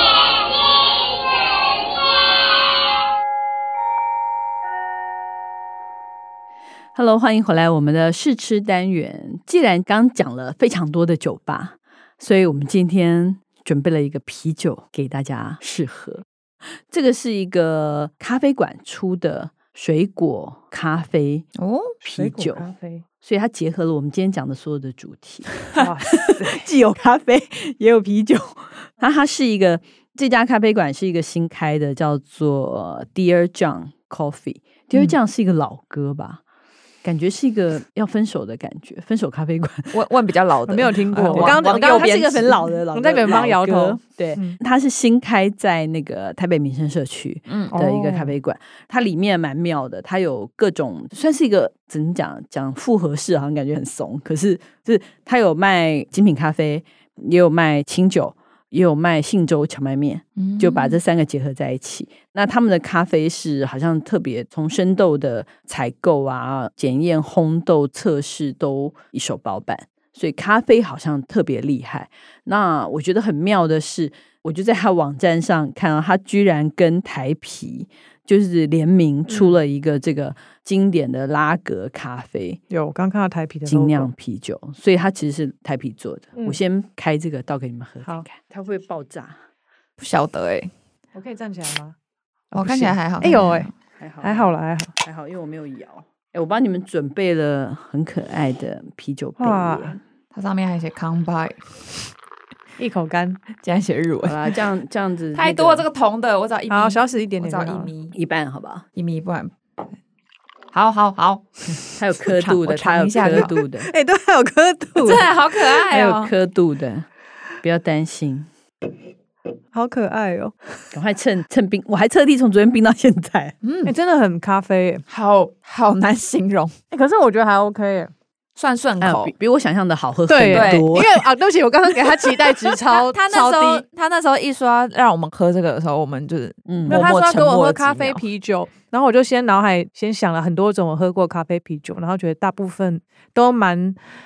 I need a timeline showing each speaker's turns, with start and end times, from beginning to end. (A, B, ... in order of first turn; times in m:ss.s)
0:06.9-0:16.2 A
0:16.9-0:21.4 A
0:21.6-0:21.9 B
0:22.0-0:22.7 A
0:22.2-0:23.0 C
0:23.2-0:36.4 A
0:25.8-0:26.6 C
0:37.0-0:40.0 A
0:39.9-0:42.6 B
0:40.7-0:44.6 C
0:41.3-1:22.6 A
0:47.5-0:47.7 B
0:47.7-0:48.3 C
1:00.4-1:01.0 B
1:22.7-1:24.1 C
1:23.7-1:29.4 A
1:30.0-1:30.7 B
1:31.1-1:32.0 C
1:32.5-1:33.7 B
1:32.6-1:33.7 C
1:34.0-1:40.0 A
1:34.2-1:34.9 C
1:39.4-1:40.0 C
1:40.3-1:41.8 B
1:42.8-1:43.4 C
1:43.6-1:44.5 B
1:44.2-1:45.9 A
1:45.3-1:48.1 B
1:46.7-1:47.9 C
1:48.1-1:48.8 A
1:49.0-1:49.5 B
1:50.7-1:53.5 B
1:51.9-1:53.9 A
1:53.3-1:55.3 C
1:55.0-1:56.3 B
1:55.9-1:57.1 A
1:57.6-1:58.5 A
1:59.7-2:00.5 C
2:00.9-2:03.5 A
2:03.6-2:03.9 B
2:03.8-2:05.0 C
2:05.1-2:06.7 B
2:06.9-2:08.1 C
2:08.6-2:09.3 B
2:09.0-2:11.2 A
2:10.3-2:13.8 C
2:10.5-2:10.9 B
2:12.9-2:18.2 B
2:16.7-2:17.8 A
2:16.9-2:24.0 C